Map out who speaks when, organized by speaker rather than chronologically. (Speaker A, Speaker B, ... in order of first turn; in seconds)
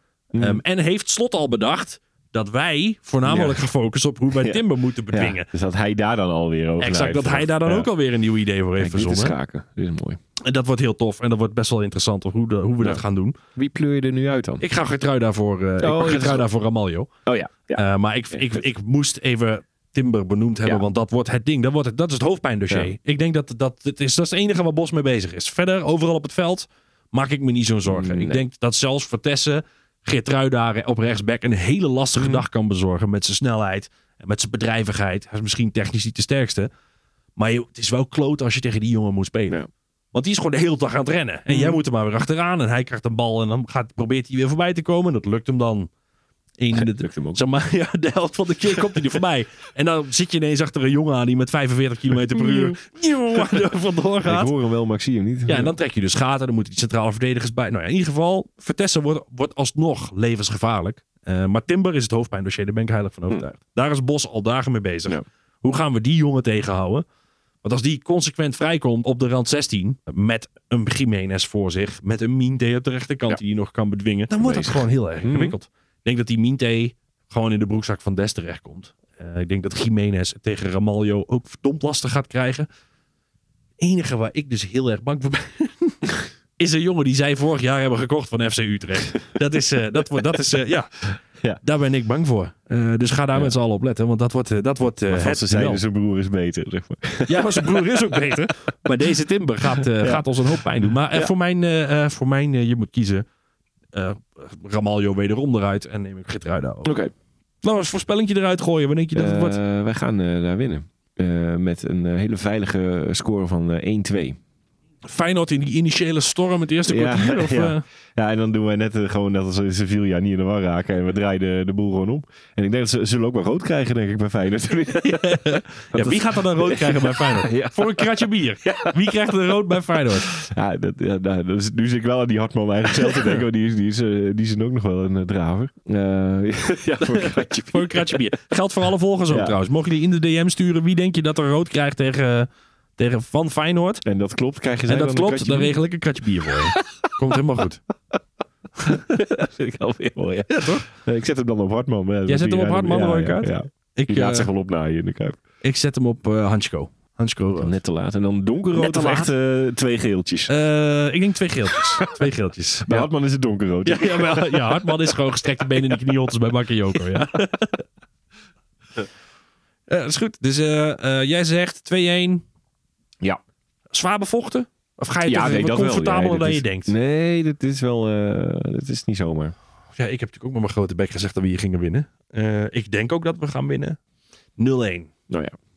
Speaker A: 0.3-0.6, 3.2-3.7, 4.4-7.9, 8.8-10.2, 13.6-14.7, 15.8-16.5, 17.3-18.6, 27.9-28.4, 32.2-32.4, 41.5-41.8, 46.7-47.4, 52.2-52.8, 53.4-53.6, 54.2-55.8, 74.3-75.5, 95.1-98.3, 99.8-100.2, 100.8-101.3, 106.8-107.1, 109.1-114.4, 116.9-129.2, 130.1-138.2, 139.3-139.6, 144.1-145.8, 146.6-147.1, 148.8-155.4, 157.6-160.5, 162.8-165.0, 175.2-179.6, 185.3-185.6
Speaker B: 0.4-5.5, 6.8-9.4, 10.4-13.4, 14.6-17.1, 17.7-36.7, 37.4-39.6, 40.1-45.9, 46.6-54.5, 55.5-67.0, 67.6-82.7, 83.8-86.0, 86.6-90.9, 91.6-95.8, 97.3-103.3, 103.9-106.9, 107.6-109.6, 115.1-117.8, 125.0-130.3, 137.0-144.0, 144.9-147.8, 150.5-150.9, 152.3-154.5, 155.6-157.8, 158.7-159.3, 160.5-163.1, 163.8-167.8, 169.9-172.4, 173.9-176.9, 180.0-184.0, 184.6-185.1